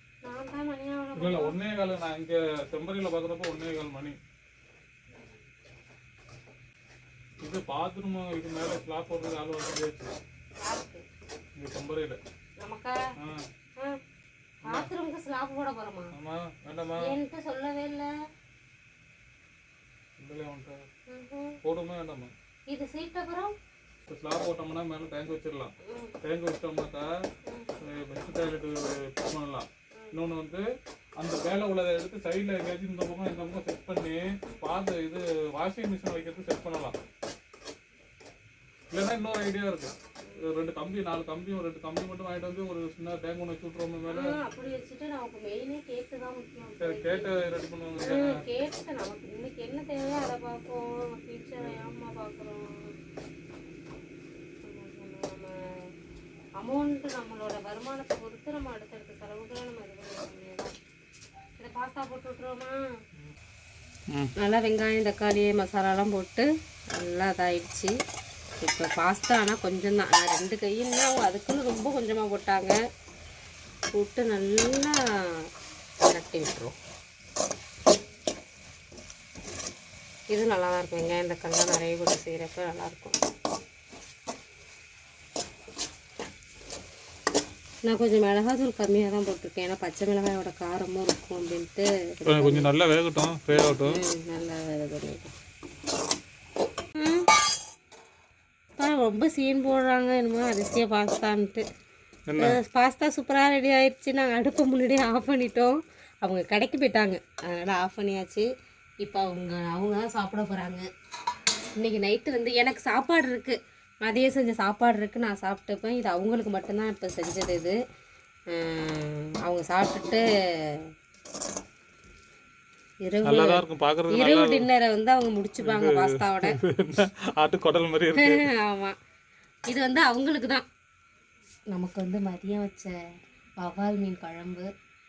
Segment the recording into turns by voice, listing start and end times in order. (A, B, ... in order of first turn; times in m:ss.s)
0:00.2-0:01.6 A
0:01.2-0:04.2 B
0:07.4-0:10.2 B
0:10.6-0:11.0 A
0:11.6-0:12.2 B
0:12.6-0:13.0 A
0:13.2-0:13.5 B
0:14.6-0:14.9 B
0:14.6-0:16.1 A
0:16.1-0:17.2 B
0:17.0-0:18.1 A
0:20.2-0:20.8 B
0:21.1-0:21.6 A
0:21.6-0:22.3 B
0:22.7-0:23.5 A
0:24.1-0:27.1 B
0:25.8-0:26.2 A
0:27.5-0:27.7 A
0:27.8-0:30.6 B
0:31.2-0:37.0 B
0:38.9-0:44.4 B
0:44.1-0:47.3 A
0:46.8-0:48.4 B
0:48.0-0:52.9 A
0:51.6-0:52.0 B
0:54.6-0:55.5 A
0:56.6-1:00.7 A
1:01.6-1:02.8 A
1:04.4-1:07.9 A
1:08.6-1:12.8 A
1:13.9-1:15.5 A
1:16.0-1:16.8 A
1:20.3-1:23.2 A
1:27.8-1:32.7 A
1:32.2-1:34.0 B
1:33.5-1:35.3 A
1:37.0-1:37.3 A
1:38.8-1:41.7 A
1:42.3-1:42.6 B
1:42.4-1:48.5 A
1:49.0-1:50.8 A
1:51.8-1:57.8 A
1:58.5-2:00.9 A
2:03.0-2:06.6 A
2:03.2-2:04.7 B
2:05.6-2:08.5 B
2:08.2-2:09.0 A
2:09.7-2:10.7 A
2:11.7-2:13.0 A
2:13.6-2:14.7 A